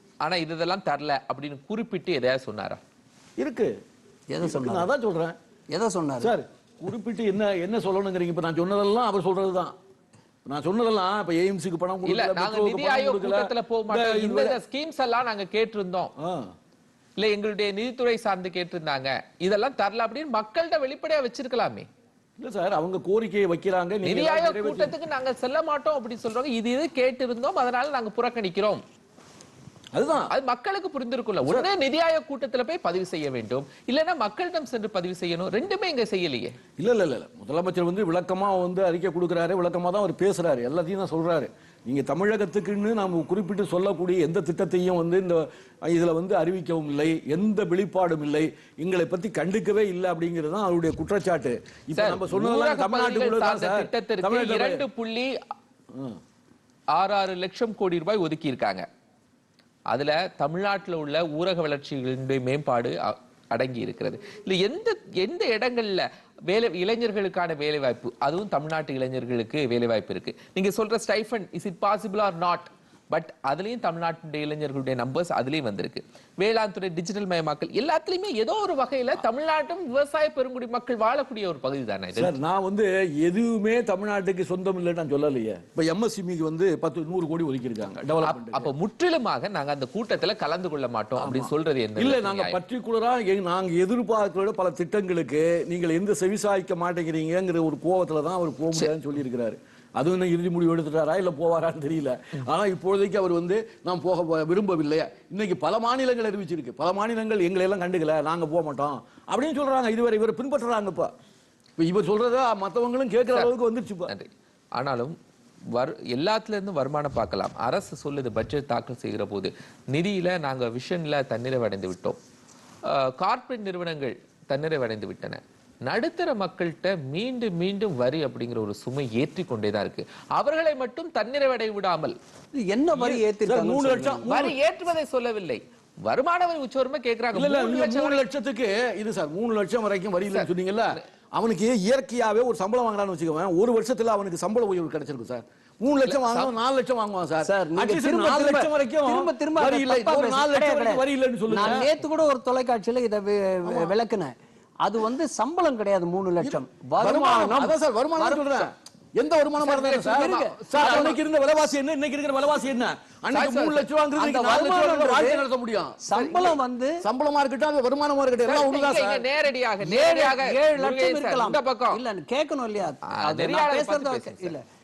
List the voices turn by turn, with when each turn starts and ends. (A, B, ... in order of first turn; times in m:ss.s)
0:00.2-0:02.8 A
0:03.4-0:03.7 B
0:04.3-0:04.9 C
0:04.4-0:05.4 B
0:05.7-0:06.3 C
0:06.2-0:09.7 B
0:10.5-0:14.6 B
0:12.0-0:16.1 A
0:16.2-0:16.5 B
0:17.2-0:21.9 A
0:22.4-0:24.9 B
0:24.0-0:28.8 A
0:29.9-0:30.3 B
0:30.3-0:36.5 A
0:36.8-0:54.8 B
0:51.9-0:55.4 A
0:55.9-0:56.2 B
0:56.9-0:58.8 A
0:59.9-1:22.3 A
1:22.2-1:28.7 B
1:28.2-1:32.6 A
1:31.2-1:51.1 B
1:51.8-1:54.1 B
1:54.1-1:55.2 A
1:55.7-2:02.2 A
2:02.8-2:12.2 A
2:12.7-2:14.2 C
2:12.9-2:14.6 B
2:14.3-2:18.2 A
2:17.3-2:31.9 B
2:20.3-2:21.0 A
2:26.0-2:26.5 A
2:27.5-2:38.7 C
2:33.6-2:33.9 B
2:36.4-2:49.2 B
2:39.6-2:41.2 A
2:40.0-2:41.1 C
2:43.3-2:43.8 A
2:44.2-2:45.4 C
2:46.0-2:47.0 C
2:48.4-2:52.0 A
2:49.8-2:54.6 C
2:53.1-2:54.6 A